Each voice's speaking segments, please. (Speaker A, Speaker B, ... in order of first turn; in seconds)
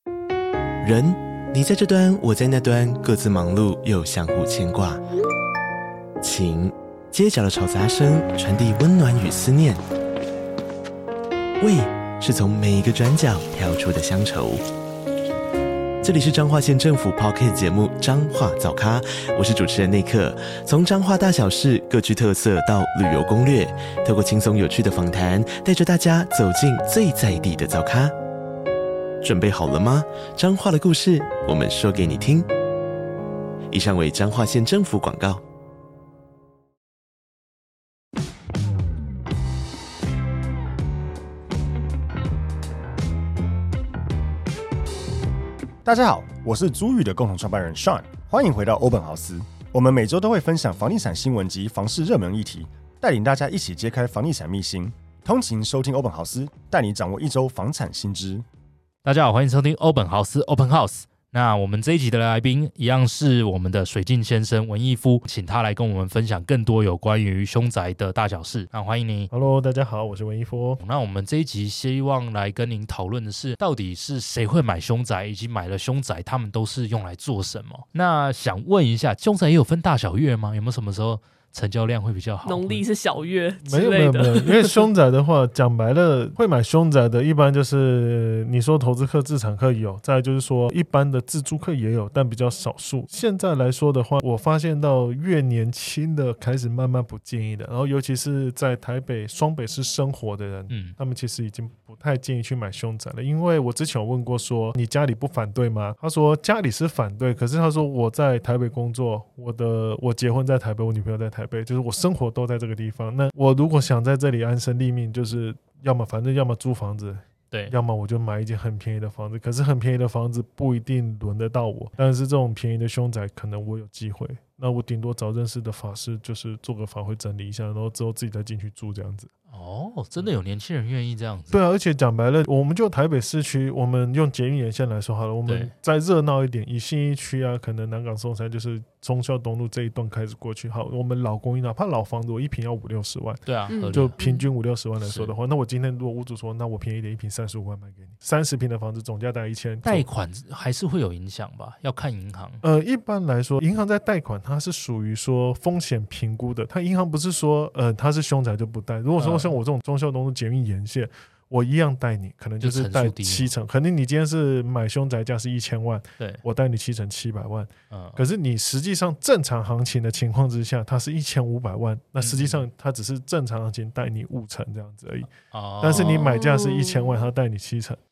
Speaker A: 0.8-5.0, 6.2-9.8, 11.6-14.6, 16.1-28.1, 29.2-32.5, 33.7-35.4
Speaker B: 45.8-58.4
Speaker C: 59.0-69.3, 70.8-82.8, 100.7-100.9, 129.5-131.6, 135.4-135.7, 143.4-144.2, 145.0-145.3, 149.8-152.6, 159.2-159.6, 162.6-163.5, 167.9-168.2, 172.2-172.6, 175.5-176.2
Speaker D: 69.3-70.8, 83.6-129.3, 131.5-150.1, 152.6-178.0
Speaker E: 82.4-84.9, 143.7-144.4, 175.9-177.2